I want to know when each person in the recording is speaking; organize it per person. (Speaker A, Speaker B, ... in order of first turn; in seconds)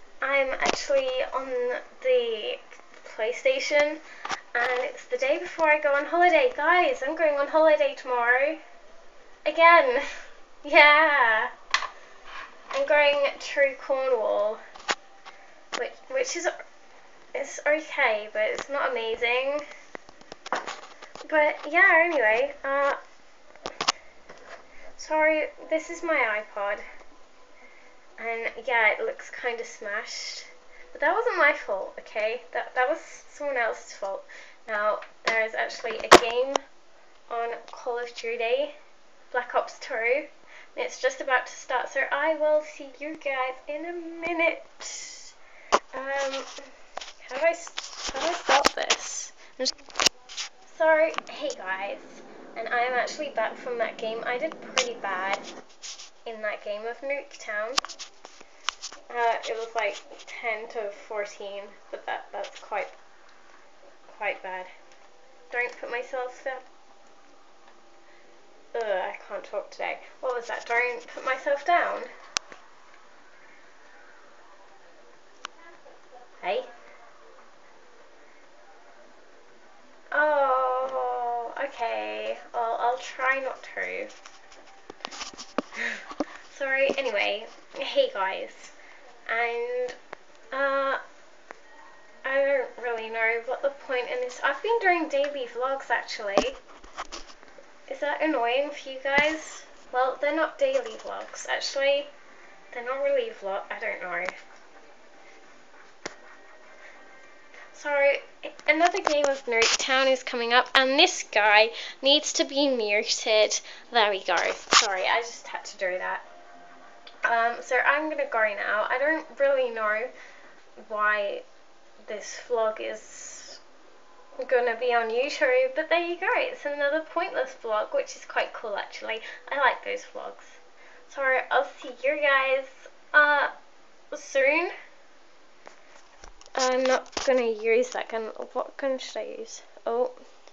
Speaker A: 0.2-4.0, 4.5-8.6, 9.4-10.1, 10.6-11.5, 12.7-14.6, 15.8-16.5, 17.3-19.6, 21.2-23.0, 25.0-26.8, 28.2-36.6, 37.3-38.7, 39.3-45.3, 45.9-46.7, 47.2-49.7, 50.6-55.4, 56.2-57.8, 59.1-62.9, 64.1-64.7, 65.5-66.6, 68.7-72.1, 76.4-76.7, 80.1-84.1, 85.8-88.7, 89.2-90.0, 90.5-91.0, 92.2-96.6, 97.9-102.1, 102.7-104.3, 107.7-116.2, 117.2-120.1, 120.8-121.4, 122.0-123.6, 124.4-133.5, 134.1-134.7, 136.5-140.2